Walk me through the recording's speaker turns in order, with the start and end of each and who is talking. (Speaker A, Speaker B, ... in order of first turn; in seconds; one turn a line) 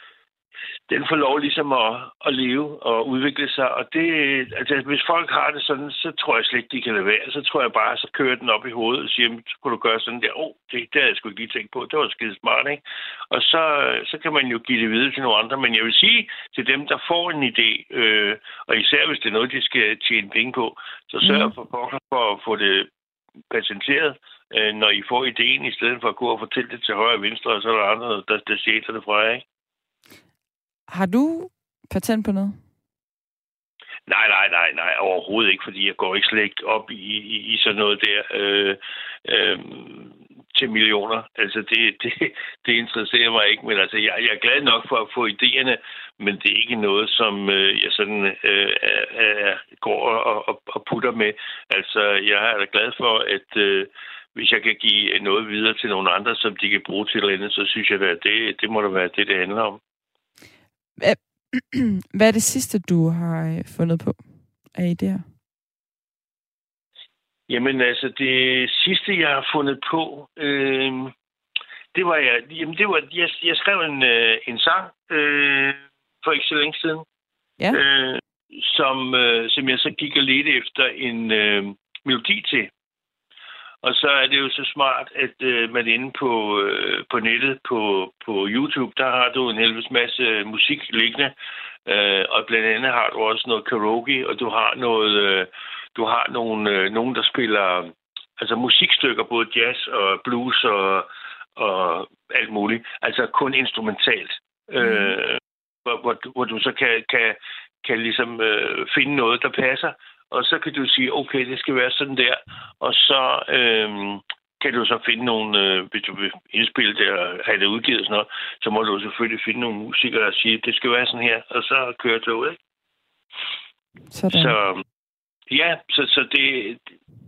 Speaker A: 0.9-22.9
Speaker B: 21.2-21.5
Speaker A: 23.5-29.4
Speaker B: 30.9-32.6
Speaker A: 34.1-59.8
Speaker B: 61.0-65.2
Speaker A: 67.5-71.1
Speaker A: 71.9-77.0
Speaker A: 77.7-82.7
Speaker A: 83.8-91.3
Speaker A: 91.8-122.6
Speaker B: 104.8-105.2
Speaker B: 124.1-124.5
Speaker A: 124.3-124.8
Speaker A: 125.5-126.8